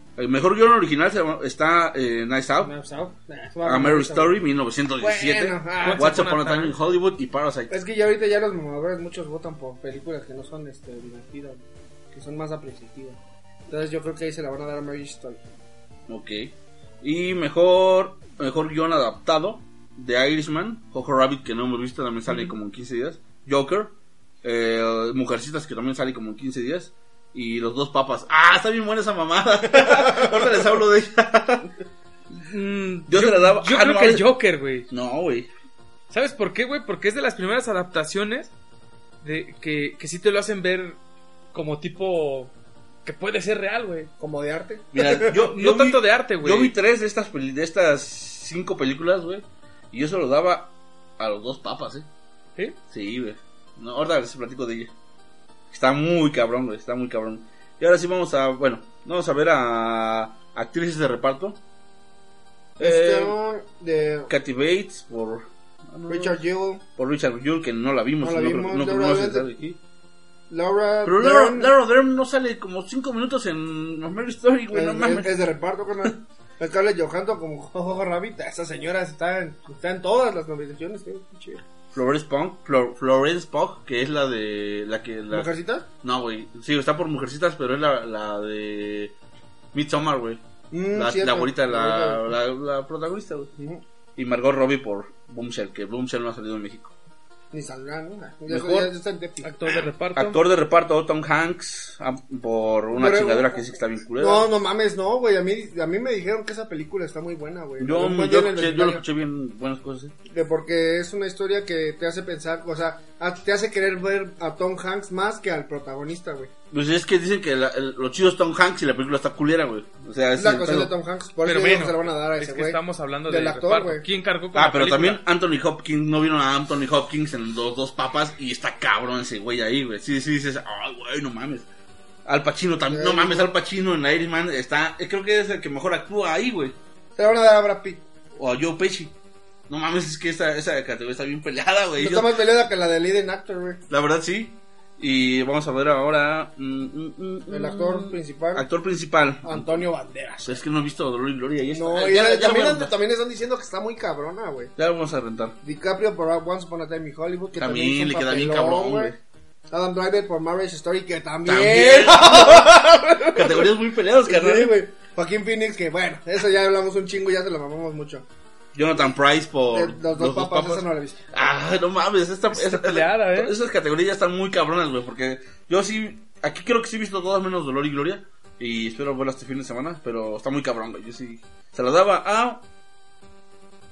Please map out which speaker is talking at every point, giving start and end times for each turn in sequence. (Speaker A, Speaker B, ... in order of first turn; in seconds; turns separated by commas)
Speaker A: 0.2-2.7, Speaker B: 2.6-4.4, Speaker A: 3.6-7.7, Speaker B: 5.0-6.2, Speaker C: 5.8-6.8, Speaker B: 7.7-15.4, Speaker A: 16.1-23.9, Speaker C: 22.3-22.5, Speaker A: 24.4-31.7, Speaker B: 29.9-30.4, Speaker C: 32.3-34.9, Speaker A: 33.1-34.3, Speaker A: 34.9-35.5, Speaker C: 36.1-38.5, Speaker C: 39.2-41.0, Speaker C: 41.5-42.5, Speaker C: 43.0-44.1, Speaker B: 44.2-45.3, Speaker A: 44.9-52.1, Speaker C: 45.3-46.7, Speaker A: 52.9-54.9, Speaker A: 55.7-61.6, Speaker A: 62.8-63.4, Speaker B: 62.8-64.3, Speaker A: 64.3-66.4, Speaker B: 66.1-66.8, Speaker A: 67.0-69.8, Speaker B: 68.2-69.5, Speaker B: 70.5-71.7, Speaker A: 71.0-75.3, Speaker B: 74.7-81.6, Speaker A: 81.9-85.5, Speaker B: 85.3-85.9, Speaker A: 86.0-89.1, Speaker A: 89.7-90.4, Speaker B: 90.7-92.3, Speaker A: 90.9-93.5, Speaker A: 94.2-96.9, Speaker B: 97.5-99.5, Speaker A: 98.5-98.9, Speaker C: 99.4-100.4, Speaker A: 99.7-104.5, Speaker B: 102.9-109.0, Speaker A: 107.8-110.1, Speaker B: 110.3-116.5, Speaker A: 116.7-120.9, Speaker B: 120.3-124.0, Speaker C: 121.4-125.2, Speaker A: 124.5-131.7, Speaker A: 132.2-136.8, Speaker B: 132.8-133.5, Speaker B: 137.2-138.0, Speaker A: 138.4-139.1, Speaker A: 139.7-142.4, Speaker B: 142.0-143.8, Speaker A: 143.9-149.8, Speaker B: 147.5-148.7, Speaker B: 149.4-150.6, Speaker A: 150.4-152.9, Speaker B: 151.7-154.7, Speaker A: 154.8-155.6, Speaker B: 155.6-159.2, Speaker A: 157.6-159.2, Speaker B: 159.7-163.7, Speaker A: 161.5-164.7, Speaker B: 164.2-168.2, Speaker A: 168.7-182.6, Speaker B: 169.7-171.2, Speaker C: 172.5-173.5